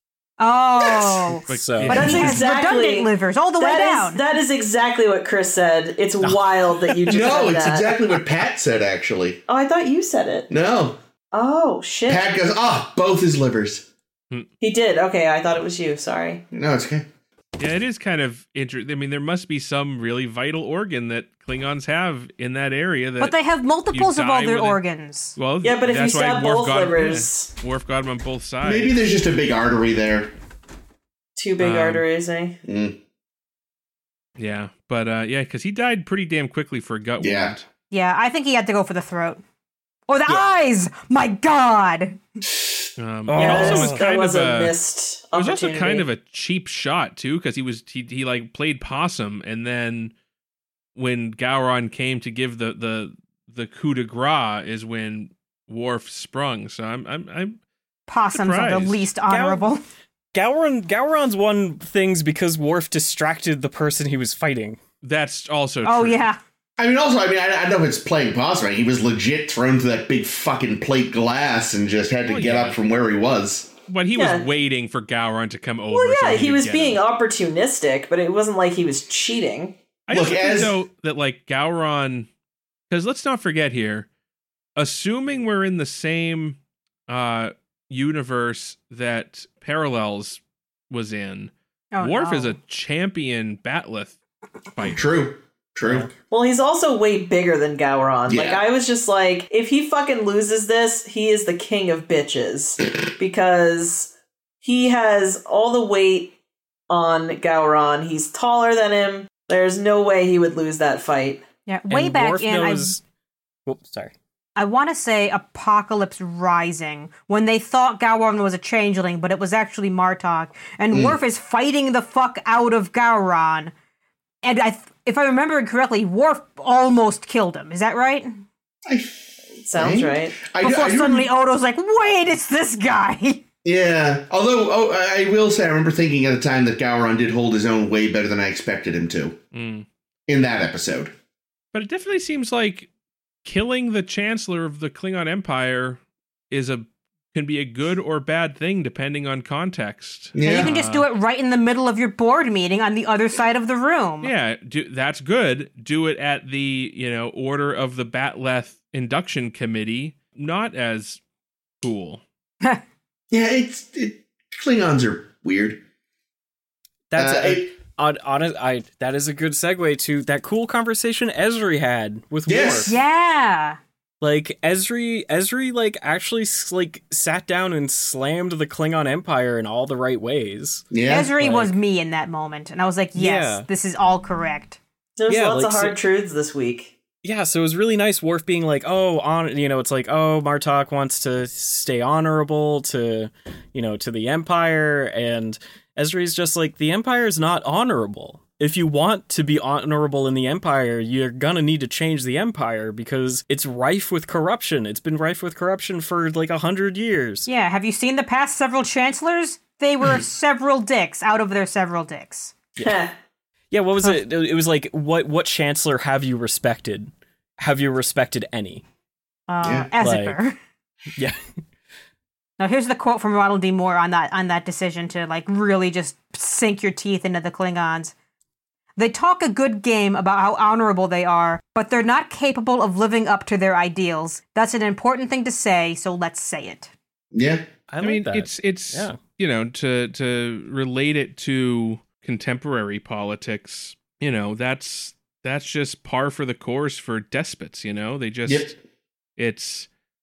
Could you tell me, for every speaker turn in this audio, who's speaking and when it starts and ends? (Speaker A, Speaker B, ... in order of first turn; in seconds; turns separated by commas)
Speaker A: 0.4-4.2, Speaker B: 1.5-2.4, Speaker C: 1.5-2.4, Speaker D: 1.9-7.9, Speaker C: 6.2-7.2, Speaker E: 7.1-9.4, Speaker D: 9.5-10.5, Speaker E: 10.5-11.0, Speaker D: 11.3-12.3, Speaker E: 12.1-13.8, Speaker D: 14.6-16.4, Speaker E: 16.5-17.1, Speaker B: 17.6-23.4, Speaker A: 23.2-25.4, Speaker B: 23.9-24.8, Speaker B: 25.4-29.0, Speaker D: 25.6-27.5, Speaker E: 28.6-30.3, Speaker D: 31.4-32.6, Speaker B: 31.6-32.0, Speaker E: 32.6-33.0, Speaker B: 34.4-37.6, Speaker E: 37.2-37.5, Speaker A: 37.9-39.4, Speaker A: 40.1-42.2, Speaker B: 43.0-44.7, Speaker C: 43.3-44.0, Speaker D: 43.3-46.1, Speaker B: 45.3-50.1, Speaker B: 50.9-57.6, Speaker A: 58.1-59.8, Speaker B: 58.3-59.1, Speaker C: 59.3-59.7, Speaker C: 60.3-64.8, Speaker B: 65.0-66.2, Speaker A: 65.8-66.4, Speaker E: 66.8-73.7, Speaker B: 72.3-72.8, Speaker B: 73.9-77.0, Speaker D: 74.1-74.5, Speaker D: 75.9-79.7, Speaker B: 80.1-82.3, Speaker E: 80.1-80.7, Speaker B: 82.9-84.1, Speaker B: 84.8-94.2, Speaker A: 91.9-92.5, Speaker E: 94.9-96.1, Speaker C: 95.8-96.1, Speaker D: 96.3-104.1, Speaker E: 98.3-98.6, Speaker D: 104.6-106.3, Speaker D: 106.9-111.4, Speaker A: 111.7-113.0, Speaker C: 111.9-113.0, Speaker C: 113.7-114.1, Speaker A: 114.5-123.7, Speaker E: 120.9-121.2, Speaker A: 124.4-128.4, Speaker E: 128.8-131.3, Speaker D: 129.6-130.4, Speaker A: 130.6-133.4, Speaker E: 133.6-139.4, Speaker B: 139.5-139.8, Speaker E: 140.3-141.1, Speaker B: 141.7-142.9, Speaker B: 143.4-151.1, Speaker E: 150.3-150.7, Speaker A: 150.4-154.3, Speaker B: 154.2-161.2, Speaker B: 161.8-162.2, Speaker E: 163.3-165.8, Speaker C: 167.1-173.0, Speaker E: 167.2-167.7, Speaker E: 172.5-172.9, Speaker A: 172.9-173.8, Speaker C: 174.2-181.7, Speaker E: 180.9-181.3, Speaker A: 181.1-184.8, Speaker C: 183.1-183.7, Speaker D: 185.2-186.9, Speaker C: 185.3-185.9, Speaker C: 187.2-207.5, Speaker A: 207.5-212.5, Speaker D: 212.8-213.1, Speaker C: 213.7-218.8, Speaker A: 219.5-220.6, Speaker E: 219.6-219.9, Speaker C: 220.0-220.4, Speaker A: 222.6-228.1, Speaker A: 229.0-236.9, Speaker E: 237.3-237.6, Speaker C: 237.9-239.2, Speaker B: 238.0-248.8, Speaker E: 248.5-248.7, Speaker B: 249.4-249.9